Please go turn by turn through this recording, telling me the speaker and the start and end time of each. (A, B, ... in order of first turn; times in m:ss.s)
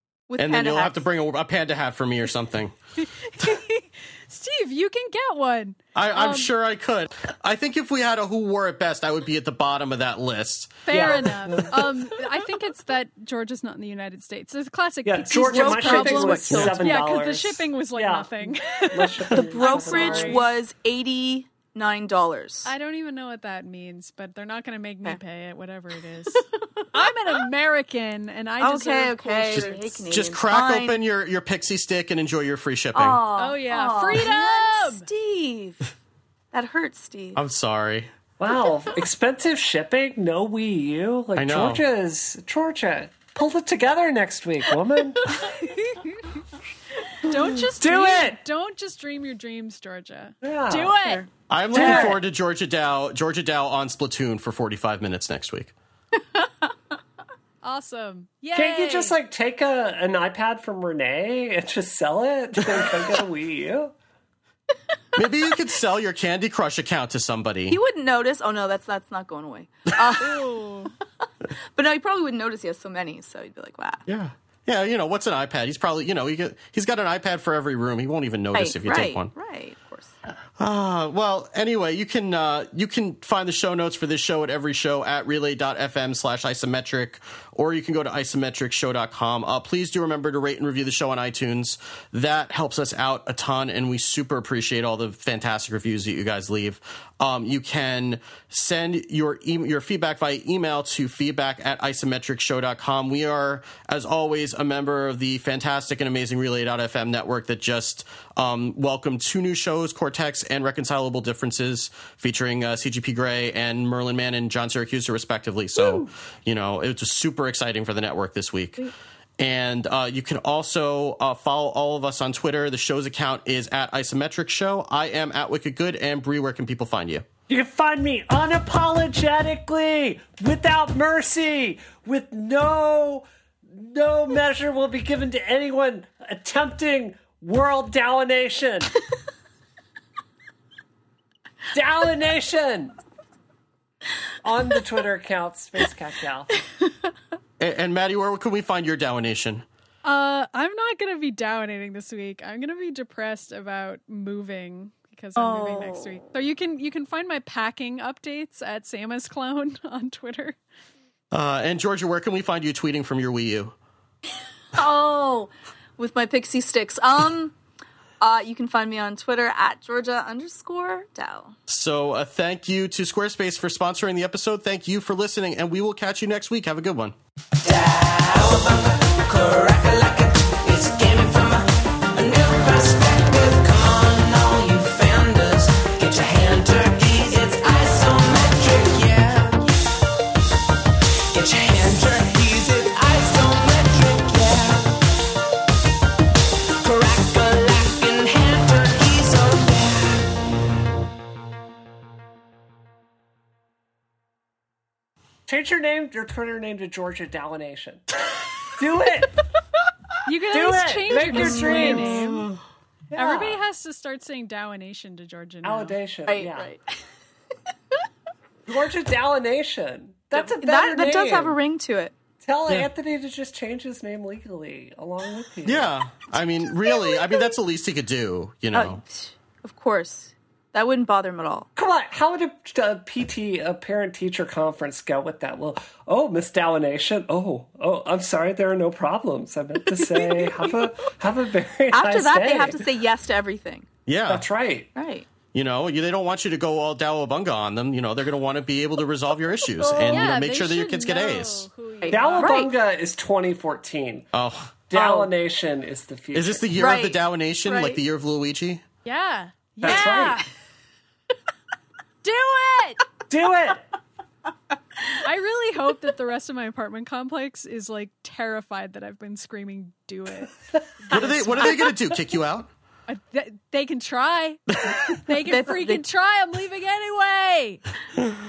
0:00.3-0:01.0 A
0:00.4-0:02.7 B
0:03.0-0:06.5 C
0:05.9-0:11.0 B
0:10.8-0:20.5 C
0:10.9-0:11.9 D
0:15.0-0:20.4 D
0:15.5-0:16.4 A
0:16.5-0:16.8 B
0:19.3-0:22.7 A
0:22.6-0:30.0 C
0:26.6-0:26.9 A
0:28.6-0:31.0 A
0:30.1-0:33.2 B
0:32.9-0:35.9 A
0:33.4-0:35.1 C
0:36.5-0:37.4 A
0:37.4-0:38.1 B
0:38.4-0:45.4 D
0:41.4-0:41.8 B
0:45.4-0:46.4 C
0:47.0-0:51.2 C
0:47.8-0:48.4 D
0:50.4-0:51.2 D
0:51.5-0:55.7 B
0:51.7-0:52.2 D
0:57.6-0:59.1 C
0:58.5-1:03.9 D
1:05.2-1:07.8 B
1:07.7-1:14.0 A
1:14.1-1:19.3 B
1:18.5-1:20.1 A
1:20.6-2:07.2 B
1:55.8-1:56.0 A
2:07.5-2:19.0 D
2:21.7-2:23.0 D
2:24.4-2:26.6 D
2:27.6-2:29.6 B
2:30.0-2:40.6 C
2:35.4-2:36.2 A
2:41.3-2:43.7 B
2:44.7-2:47.5 A
2:48.2-2:51.6 A
2:51.7-2:57.1 B
2:57.6-3:09.7 E
3:11.3-3:14.8 E
3:16.8-3:20.2 E
3:25.5-3:29.4 D
3:30.2-3:32.5 C
3:30.5-3:32.4 D
3:31.4-3:32.2 A
3:33.1-3:33.6 D
3:33.1-3:36.0 C
3:35.6-3:36.7 D
3:36.3-3:37.0 A
3:38.7-3:41.6 D
3:40.3-3:42.1 A
3:42.4-3:46.0 D
3:45.6-3:49.0 B
3:46.7-3:47.5 A
3:48.7-3:51.7 A
3:51.8-4:02.8 D
4:01.9-4:03.9 A
4:04.0-4:04.4 B
4:04.3-4:04.9 D
4:05.0-4:05.3 A
4:05.5-4:11.7 B
4:09.8-4:12.7 C
4:12.0-4:12.7 A
4:12.1-4:14.3 D
4:14.3-4:14.8 B
4:14.9-4:16.7 D
4:14.9-4:15.3 A
4:16.3-4:18.8 B
4:16.7-4:18.0 A
4:19.0-4:20.5 C
4:19.8-4:20.4 D
4:19.8-4:20.1 A
4:22.2-4:23.0 C
4:23.3-4:23.8 D
4:25.2-4:30.5 C
4:31.0-4:31.9 D
4:31.1-4:31.7 C
4:31.1-4:32.7 B
4:33.1-4:37.8 C
4:35.4-4:36.0 A